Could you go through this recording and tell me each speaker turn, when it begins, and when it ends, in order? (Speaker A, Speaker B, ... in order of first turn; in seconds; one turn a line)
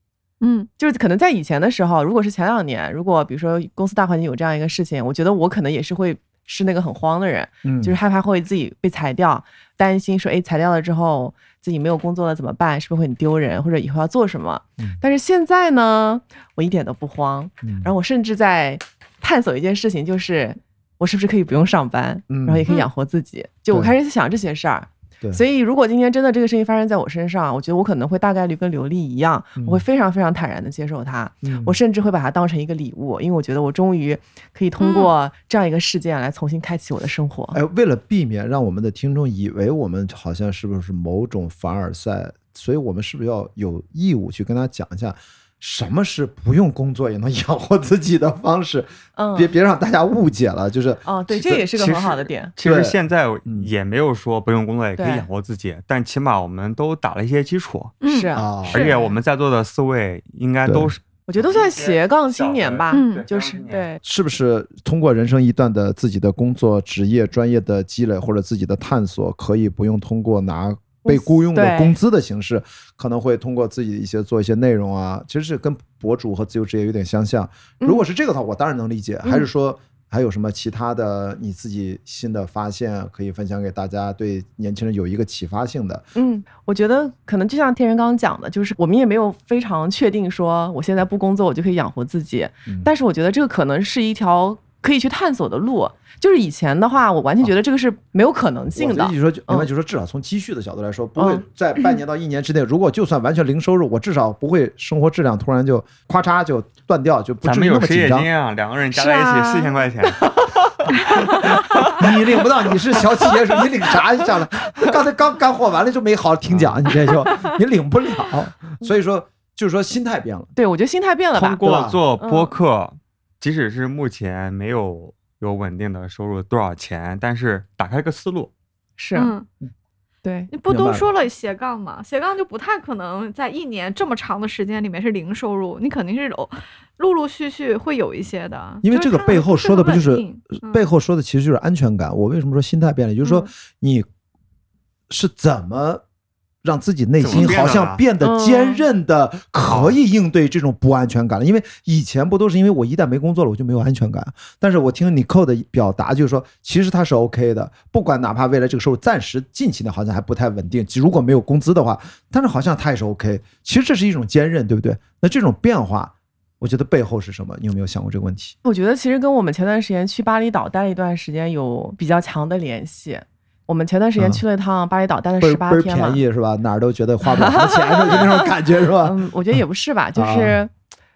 Speaker A: 0.4-0.7
Speaker B: 0.8-37.6
Speaker C: 7.6-8.0
Speaker C: 17.6-17.9
Speaker C: 22.3-22.7
Speaker C: 29.6-29.8
Speaker C: 31.4-31.8
Speaker A: 34.8-35.1
Speaker C: 37.5-53.0
Speaker B: 49.2-49.5
Speaker B: 51.1-52.5
Speaker D: 52.6-58.0
Speaker B: 55.0-55.3
Speaker A: 58.0-58.3
Speaker B: 58.0-59.2
Speaker C: 58.4-58.9
Speaker D: 58.7-63.9
Speaker C: 60.6-60.9
Speaker B: 61.3-64.0
Speaker A: 62.9-63.2
Speaker C: 64.0-86.1
Speaker B: 71.0-72.0
Speaker B: 86.2-99.7
Speaker C: 98.8-108.3
Speaker B: 101.2-101.4
Speaker D: 107.4-110.4
Speaker B: 109.0-112.0
Speaker C: 111.9-120.5
Speaker D: 116.5-116.8
Speaker B: 120.6-121.6
Speaker D: 121.4-128.5
Speaker C: 121.4-122.0
Speaker B: 122.2-122.6
Speaker B: 129.0-129.3
Speaker A: 129.2-129.5
Speaker B: 130.2-130.5
Speaker A: 130.5-140.9
Speaker C: 130.7-131.1
Speaker C: 138.8-144.1
Speaker C: 145.1-146.0
Speaker C: 146.6-168.6
Speaker D: 147.2-148.0
Speaker B: 148.2-148.9
Speaker D: 149.7-150.0
Speaker B: 168.7-176.2
Speaker C: 174.2-174.4
Speaker C: 175.4-179.6
Speaker B: 177.3-178.5
Speaker B: 179.0-180.7
Speaker C: 180.2-180.6